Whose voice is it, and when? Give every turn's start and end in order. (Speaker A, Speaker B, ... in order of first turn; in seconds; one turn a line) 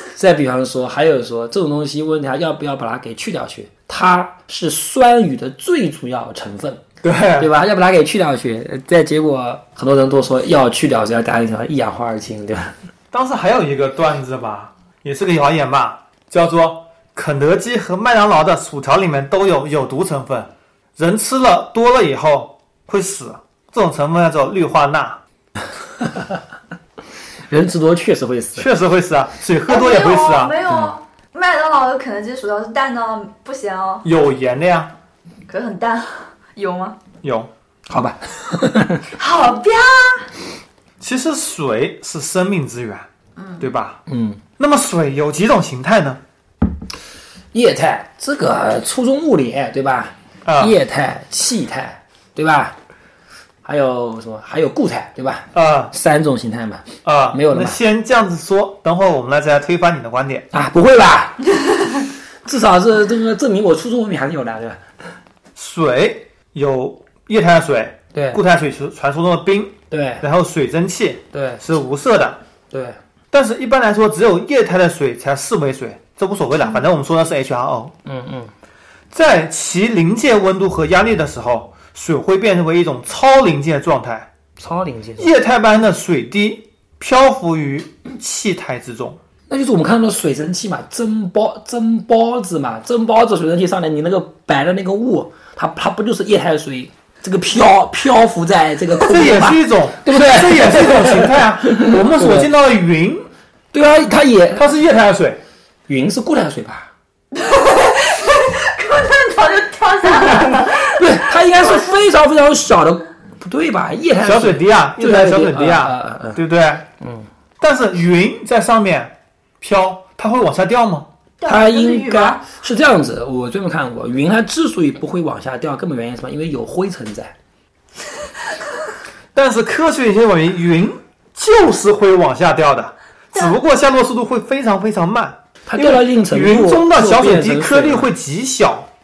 Speaker A: 0.1-6.8
Speaker B: 7.0-7.5
Speaker A: 7.4-12.7
Speaker B: 13.1-25.2
Speaker A: 26.0-26.4
Speaker A: 27.5-28.7
Speaker B: 28.6-30.6
Speaker C: 29.7-34.0
Speaker A: 30.7-30.9
Speaker B: 34.0-34.9
Speaker C: 35.5-37.0
Speaker B: 37.2-37.5
Speaker A: 37.9-39.1
Speaker C: 39.2-40.3
Speaker B: 41.0-43.1
Speaker C: 43.4-43.7
Speaker B: 43.6-44.0
Speaker A: 44.1-44.4
Speaker B: 44.6-46.2
Speaker A: 47.5-52.8
Speaker B: 50.4-50.7
Speaker A: 53.6-57.8
Speaker B: 55.5-55.9
Speaker B: 57.0-60.5
Speaker A: 60.5-61.5
Speaker A: 62.4-64.8
Speaker B: 65.5-72.4
Speaker A: 68.1-68.4
Speaker A: 69.9-70.2
Speaker A: 71.3-71.6
Speaker A: 72.7-73.0
Speaker B: 73.3-77.9
Speaker A: 78.0-78.5
Speaker B: 79.1-84.3
Speaker A: 84.6-85.3
Speaker B: 85.2-89.2
Speaker A: 89.5-102.5
Speaker B: 98.9-103.3
Speaker A: 103.7-104.7
Speaker B: 104.5-105.4
Speaker A: 105.9-106.9
Speaker C: 107.3-111.8
Speaker A: 110.2-116.4
Speaker B: 114.2-116.8
Speaker A: 117.0-117.3
Speaker B: 117.6-121.1
Speaker C: 121.4-122.4
Speaker A: 121.5-127.3
Speaker B: 129.3-138.9
Speaker A: 135.7-138.1